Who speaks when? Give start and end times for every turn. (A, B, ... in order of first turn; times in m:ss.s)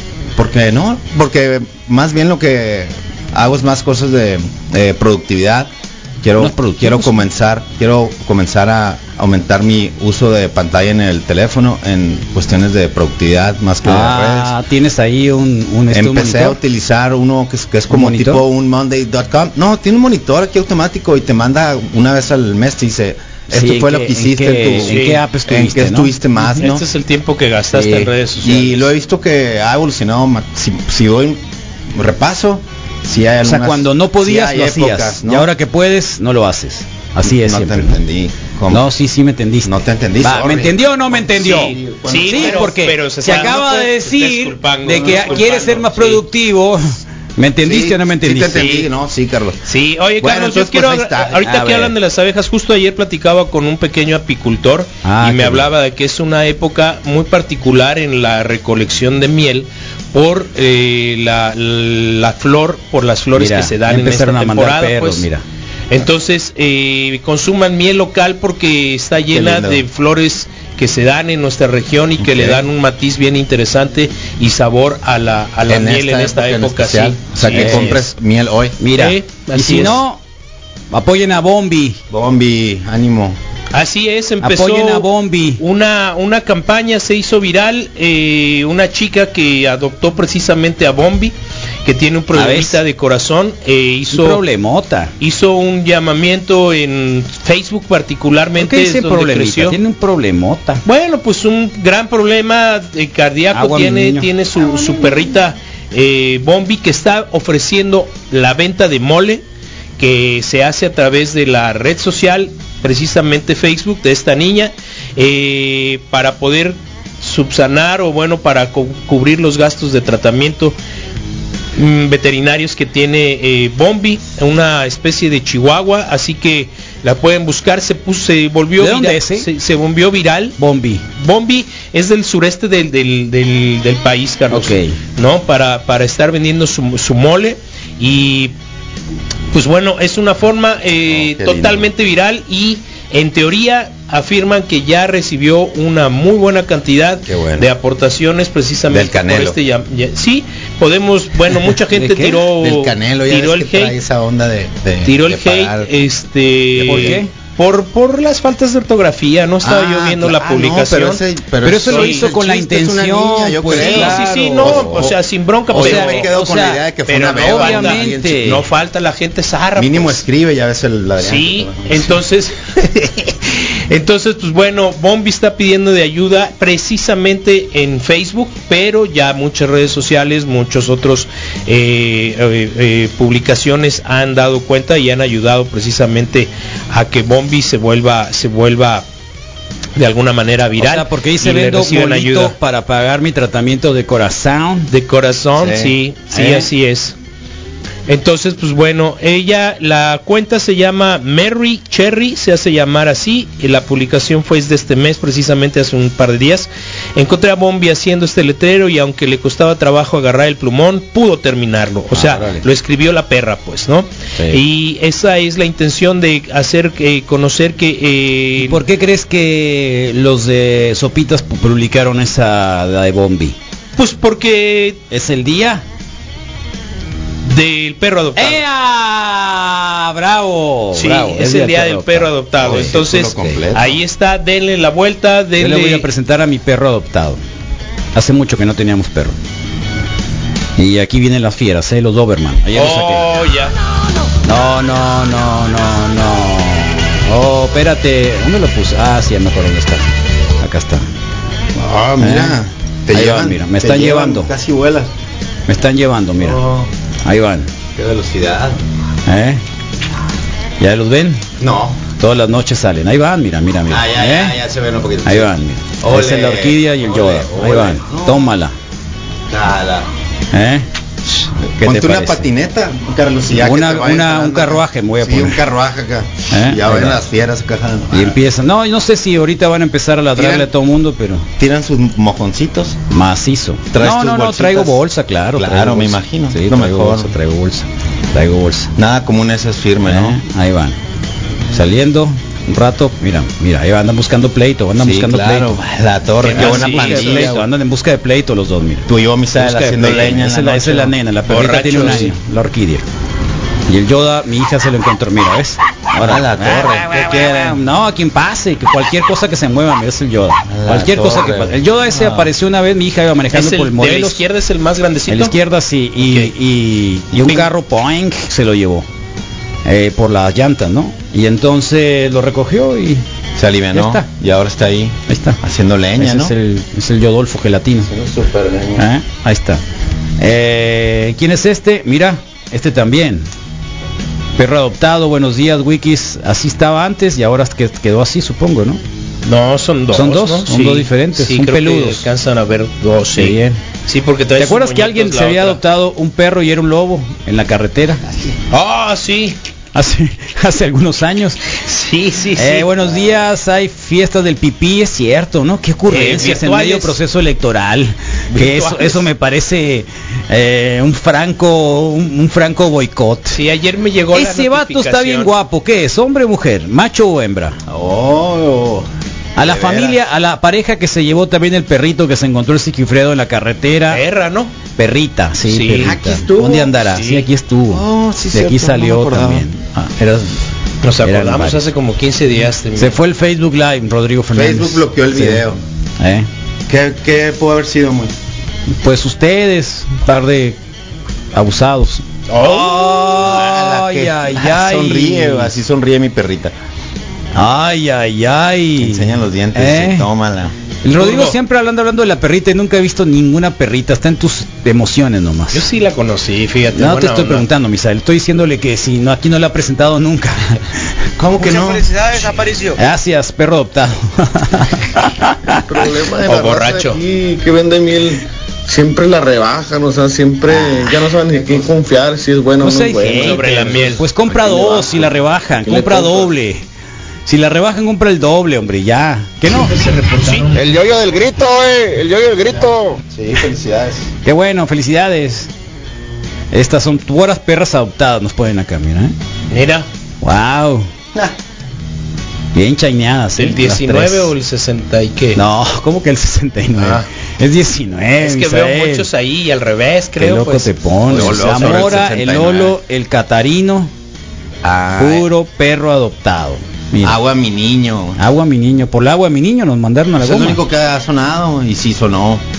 0:00.4-0:05.7 A
0:06.2-0:14.5 A
0:06.4-0:07.2 B
0:13.8-0:16.6 B
0:15.9-0:26.8 A
0:17.9-0:18.4 B
0:23.5-0:26.1 B
0:24.8-0:25.2 C
0:26.5-0:28.8 C
0:27.7-0:35.5 A
0:33.4-0:38.0 B
0:37.2-0:38.9 A
0:38.7-0:48.8 B
0:39.6-0:42.7 A
0:41.4-0:46.2 C
0:44.9-0:45.6 A
0:47.6-0:49.6 A
0:49.7-1:05.2 C
0:50.2-0:51.5 A
0:51.4-0:51.9 B
0:55.0-0:55.7 B
1:03.4-1:05.4 B
1:05.9-1:18.0 C
1:09.3-1:09.8 A
1:12.2-1:12.6 A
1:15.7-1:18.8 A
1:17.4-1:18.0 B
1:18.8-1:20.2 B
1:18.9-1:20.0 C
1:20.9-1:22.0 B
1:22.1-1:23.4 A
1:23.7-1:25.1 C
1:24.4-1:25.6 B
1:25.6-1:34.4 C
1:32.3-1:32.8 B
1:34.1-1:35.1 B
1:35.2-1:39.8 C
1:38.6-1:40.8 B
1:40.8-1:49.4 C
1:43.5-1:44.3 B
1:50.0-2:00.8 C
2:01.8-2:10.6 C
2:08.8-2:09.5 B
2:10.6-2:11.0 B
2:11.2-2:18.5 C
2:14.5-2:14.9 B
2:19.5-2:34.0 C
2:21.1-2:21.9 A
2:27.2-2:27.7 A
2:28.9-2:29.6 A
2:31.9-2:32.4 B
2:32.6-2:35.9 A
2:35.0-2:41.2 C
2:36.7-2:37.2 A
2:36.8-2:37.3 B
2:39.6-2:45.2 A
2:41.6-2:45.0 B
2:41.8-2:42.3 C
2:43.7-2:46.3 C
2:45.7-2:48.5 A
2:45.7-2:46.8 B
2:47.0-2:50.2 C
2:47.4-2:48.6 B
2:49.8-2:52.2 A
2:51.2-2:53.2 C
2:53.9-3:09.0 C
3:10.0-3:12.6 C
3:10.8-3:14.9 B
3:14.9-3:17.1 C
3:15.6-3:15.9 A
3:16.3-3:16.7 B
3:18.1-3:38.8 C
3:32.1-3:32.6 B
3:38.6-3:43.6 B
3:44.0-3:45.0 C
3:45.1-3:45.8 B
3:47.4-3:48.6 C
3:48.4-3:53.6 B
3:50.9-3:56.1 C
3:52.6-3:54.0 A
3:55.6-3:57.4 B
3:58.1-3:59.4 B
4:00.8-4:03.2 B
4:02.7-4:03.7 C
4:04.4-4:10.0 B
4:10.6-4:11.0 B
4:11.7-4:15.1 A
4:12.2-4:12.6 B
4:13.1-4:14.5 B
4:15.7-4:16.6 B
4:16.4-4:16.9 A
4:17.2-4:17.7 B
4:17.9-4:18.8 A
4:19.3-4:19.6 B
4:20.8-4:21.4 B
4:21.6-4:22.0 A
4:22.2-4:24.6 B
4:23.9-4:28.5 A
4:25.2-4:28.7 B
4:29.5-4:30.1 A
4:30.5-4:30.8 B
4:31.8-4:38.4 A
4:31.8-4:32.4 B
4:33.6-4:35.6 B
4:36.5-4:37.2 B
4:38.1-4:41.5 B
4:40.4-4:40.7 A
4:41.6-4:43.0 A
4:43.1-4:48.9 B
4:43.9-4:45.0 A
4:45.6-4:47.3 A
4:49.0-4:50.4 A
4:50.1-4:51.0 B
4:51.7-4:55.7 B
4:55.0-4:57.7 A
4:56.4-4:57.5 C
4:56.5-5:03.0 B
4:59.1-5:01.2 A
5:01.5-5:02.3 C
5:03.9-5:14.4 B
5:06.2-5:07.8 A
5:10.6-5:12.5 A
5:13.5-5:15.5 C
5:15.3-5:19.0 B
5:16.2-5:16.5 C
5:19.8-5:23.2 B
5:23.6-5:26.5 A
5:23.9-5:24.2 B
5:25.3-5:25.6 B
5:26.2-5:28.1 B
5:28.1-5:29.0 A
5:29.0-5:29.8 B
5:30.4-5:33.5 B
5:34.6-5:39.0 B
5:39.4-5:45.8 C
5:40.1-5:42.2 B
5:43.4-5:43.8 B
5:44.6-5:48.2 B
5:48.7-5:49.6 C
5:49.9-5:51.6 B
5:51.8-5:53.0 C
5:52.6-6:03.6 B
5:56.1-5:57.2 C
5:58.5-5:59.2 C
6:03.5-6:05.5 C
6:04.3-6:07.8 B
6:07.9-6:10.2 A
6:09.6-6:14.2 B
6:14.1-6:14.7 C
6:15.0-6:20.6 B
6:15.7-6:16.1 C
6:16.0-6:17.0 A
6:17.0-6:17.4 C
6:17.9-6:19.6 A
6:21.0-6:23.2 C
6:21.2-6:21.8 B
6:23.0-6:25.6 B
6:24.5-6:25.8 A
6:26.2-6:26.5 B
6:26.9-6:28.3 A
6:29.0-6:30.8 B
6:31.5-6:35.8 B
6:32.5-6:36.7 A
6:32.6-6:33.1 C
6:37.5-6:40.3 B
6:39.0-6:40.7 A
6:41.0-6:45.8 B
6:41.2-6:41.6 C
6:45.7-6:47.6 C
6:46.9-6:50.8 B
6:51.4-6:52.1 A
6:52.9-6:56.0 B
6:56.0-6:56.2 A
6:56.0-7:03.4 D
6:56.4-6:57.2 C
7:00.6-7:01.9 A
7:00.7-7:01.1 B
7:02.8-7:06.8 B
7:03.0-7:03.8 A
7:03.4-7:04.2 C
7:04.5-7:05.3 A
7:05.9-7:06.3 A
7:07.4-7:10.0 B
7:09.9-7:10.8 C
7:10.7-7:13.2 D
7:13.2-7:14.3 A
7:14.4-7:15.7 B
7:16.7-7:19.3 B
7:19.7-7:20.1 C
7:20.4-7:21.1 B
7:22.7-7:24.5 B
7:23.6-7:25.6 C
7:25.5-7:29.3 B
7:28.4-7:30.9 C
7:30.4-7:34.1 B
7:31.3-7:33.0 A
7:31.6-7:32.0 C
7:34.8-7:35.5 A
7:35.2-7:37.4 B
7:37.2-7:38.4 A
7:38.4-7:40.8 B
7:40.4-7:42.6 A